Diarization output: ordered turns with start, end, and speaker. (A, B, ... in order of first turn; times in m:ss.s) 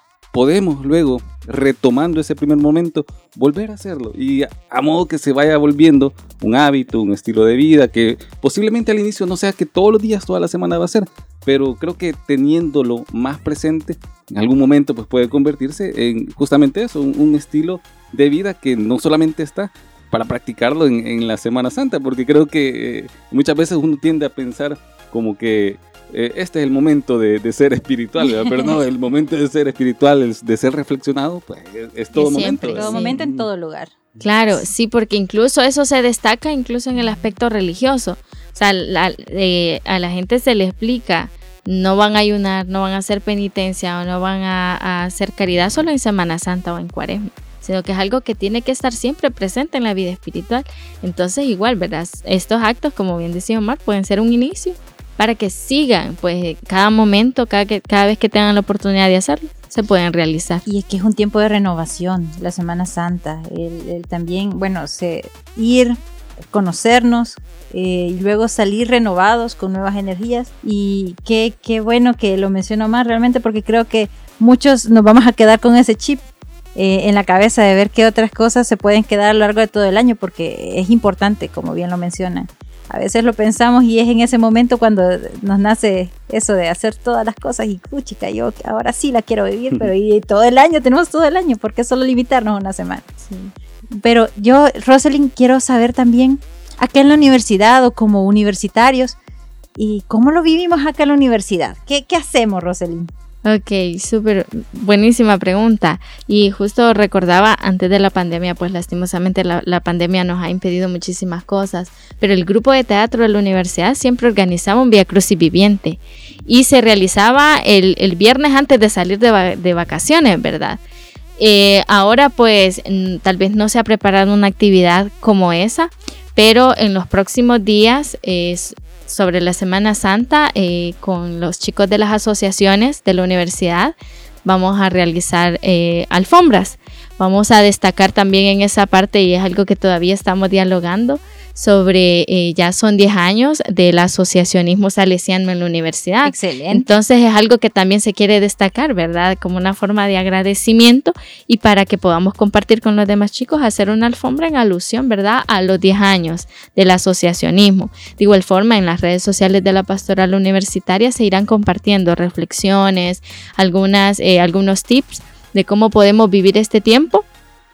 0:00.3-0:33.5 A
0:28.2-0:28.8 B
0:32.2-0:33.2 C
0:32.4-0:33.9 B
0:34.2-1:00.6 C
1:00.6-1:39.2 B
1:39.8-1:43.1 B
1:43.4-2:00.8 C
2:01.4-2:13.9 C
2:14.4-2:47.3 C
2:26.2-2:26.9 B